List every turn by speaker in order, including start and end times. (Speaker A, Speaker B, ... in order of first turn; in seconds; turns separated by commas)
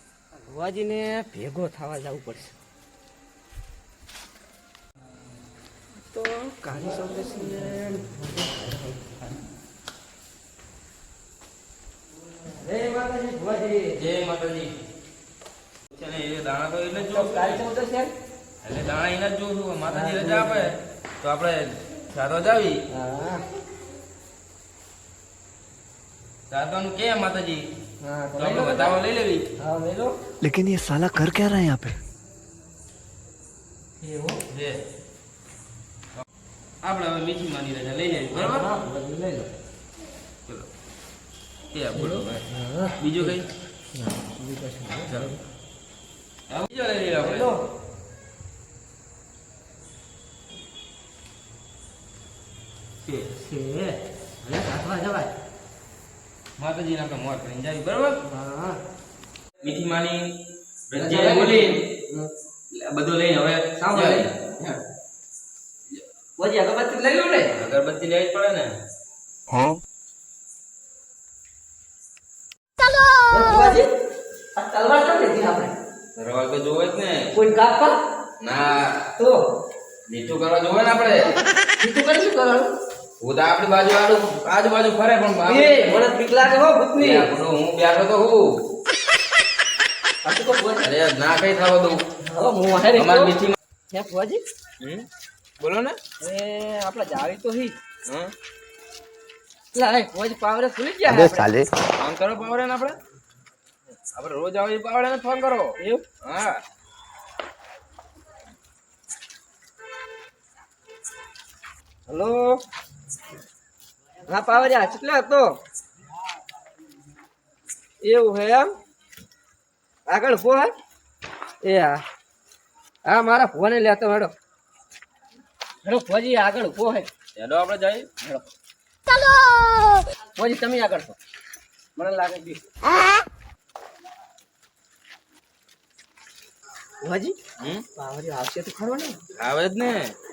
Speaker A: 0.3-2.5, Speaker A: 6.0-9.2, Speaker A: 12.5-14.0, Speaker B: 14.0-14.7, Speaker B: 15.9-17.6, Speaker A: 17.0-18.1, Speaker B: 18.6-22.8, Speaker A: 19.9-20.7, Speaker A: 22.9-23.4, Speaker B: 26.5-27.7, Speaker A: 28.0-29.0, Speaker B: 28.4-29.4, Speaker A: 29.6-30.2, Speaker C: 30.4-32.0, Speaker A: 34.0-34.4, Speaker B: 34.5-34.8, Speaker B: 36.8-38.7, Speaker A: 38.3-39.5, Speaker B: 41.7-42.4, Speaker A: 41.9-43.4, Speaker B: 43.0-43.5, Speaker A: 43.9-45.4, Speaker B: 46.5-47.5, Speaker A: 47.2-47.6, Speaker A: 53.1-55.3, Speaker B: 56.6-58.2, Speaker A: 58.2-58.8, Speaker B: 59.6-60.3, Speaker B: 60.9-61.8, Speaker A: 60.9-62.3, Speaker B: 62.7-64.3, Speaker A: 63.8-64.8, Speaker A: 66.4-67.5, Speaker B: 67.5-68.7, Speaker A: 73.3-73.9, Speaker A: 74.5-75.7, Speaker B: 76.2-77.3, Speaker A: 77.3-77.9, Speaker B: 78.4-78.9, Speaker B: 80.1-81.3, Speaker A: 81.8-82.7, Speaker B: 83.2-86.0, Speaker A: 85.5-87.3, Speaker B: 87.0-88.5, Speaker A: 90.2-90.9, Speaker B: 90.8-92.0, Speaker A: 92.2-93.4, Speaker B: 93.0-93.5, Speaker A: 93.9-94.4, Speaker B: 94.8-95.0, Speaker B: 95.6-96.0, Speaker A: 96.2-97.7, Speaker B: 98.0-98.3, Speaker A: 99.7-101.5, Speaker C: 101.1-101.7, Speaker B: 102.0-103.0, Speaker B: 104.1-106.6, Speaker A: 105.8-106.0, Speaker A: 112.1-112.6, Speaker A: 114.2-115.6, Speaker A: 118.0-118.7, Speaker A: 120.1-120.7, Speaker A: 121.6-122.0, Speaker A: 123.0-124.3, Speaker A: 125.8-127.1, Speaker B: 127.3-128.1, Speaker A: 130.3-131.2, Speaker A: 131.9-132.6, Speaker A: 137.0-137.4, Speaker B: 137.6-137.8, Speaker A: 137.9-139.2, Speaker B: 139.4-140.1